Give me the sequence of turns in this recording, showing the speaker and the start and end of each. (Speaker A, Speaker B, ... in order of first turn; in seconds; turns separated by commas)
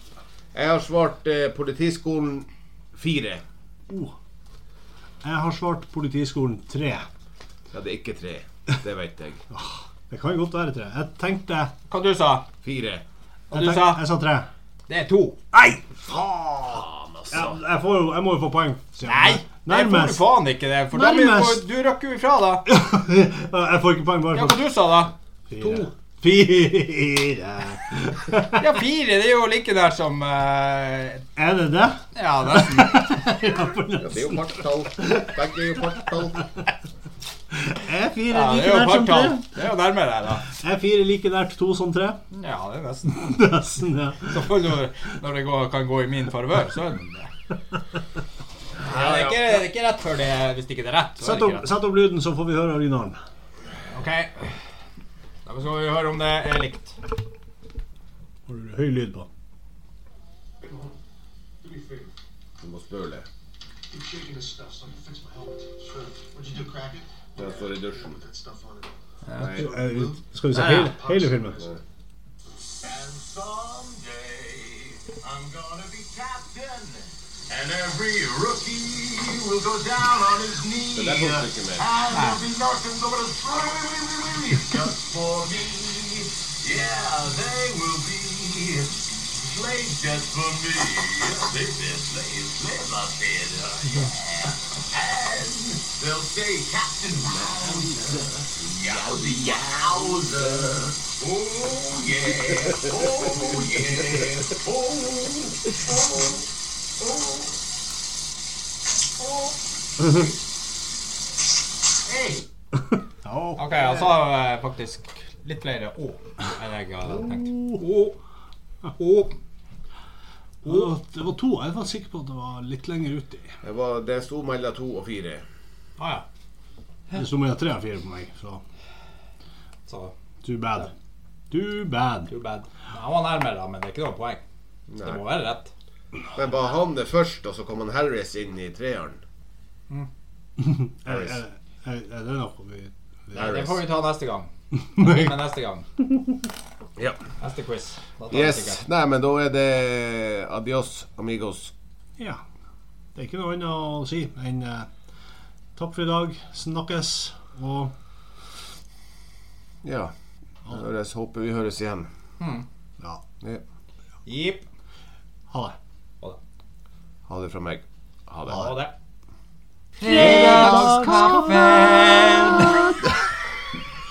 Speaker A: 0.5-3.4, Speaker B: 3.9-4.1, Speaker B: 5.2-7.1, Speaker A: 7.7-9.4, Speaker B: 9.5-11.7, Speaker C: 11.9-12.4, Speaker A: 12.6-13.0, Speaker C: 13.5-14.0, Speaker B: 13.5-14.5, Speaker C: 14.9-15.4, Speaker B: 15.5-20.3, Speaker A: 16.7-17.6, Speaker C: 19.1-22.6, Speaker B: 20.9-21.6, Speaker B: 22.6-24.7, Speaker C: 24.3-25.1, Speaker B: 25.5-28.6, Speaker C: 28.5-31.2, Speaker B: 31.4-35.2, Speaker C: 32.1-33.2, Speaker A: 34.0-36.4, Speaker B: 37.6-39.5, Speaker C: 38.3-40.5, Speaker B: 40.5-42.2, Speaker C: 42.3-43.4, Speaker B: 43.1-44.6, Speaker C: 44.2-47.3, Speaker C: 48.8-51.7, Speaker A: 48.8-49.4, Speaker B: 51.2-53.2, Speaker C: 53.9-54.5, Speaker C: 55.5-57.0, Speaker B: 58.5-59.3, Speaker A: 62.6-63.3, Speaker D: 64.1-67.5, Speaker A: 67.3-68.2, Speaker D: 68.1-68.8, Speaker C: 69.2-69.7, Speaker A: 69.4-69.9, Speaker B: 69.4-71.7, Speaker D: 69.4-69.9, Speaker C: 70.5-71.2, Speaker D: 71.2-71.8, Speaker D: 72.8-106.5, Speaker A: 80.9-81.9, Speaker C: 82.1-82.4, Speaker A: 99.0-99.5, Speaker D: 107.0-107.5, Speaker D: 109.2-109.5, Speaker D: 112.1-112.4, Speaker B: 113.2-113.8, Speaker C: 113.6-118.2, Speaker B: 117.1-117.8, Speaker C: 119.0-119.3, Speaker B: 120.6-123.6, Speaker A: 123.6-125.4, Speaker C: 126.0-126.2, Speaker B: 127.1-128.6, Speaker C: 129.9-130.1, Speaker B: 130.4-130.9, Speaker B: 131.5-132.3, Speaker C: 132.3-134.4, Speaker A: 134.9-135.2, Speaker C: 135.0-135.7, Speaker A: 136.3-139.2, Speaker B: 140.6-143.7, Speaker A: 141.1-141.3, Speaker C: 143.3-145.8, Speaker A: 143.4-143.8, Speaker B: 145.0-145.2, Speaker A: 146.9-147.2, Speaker C: 147.4-148.8, Speaker A: 148.3-151.7, Speaker B: 153.1-154.9, Speaker B: 155.8-157.9, Speaker A: 159.8-160.1, Speaker A: 160.7-162.1, Speaker C: 162.4-162.6, Speaker C: 164.2-164.7, Speaker B: 165.5-165.8, Speaker A: 167.3-168.7, Speaker C: 168.5-168.9, Speaker C: 170.0-172.8, Speaker A: 170.0-172.8, Speaker B: 170.1-171.2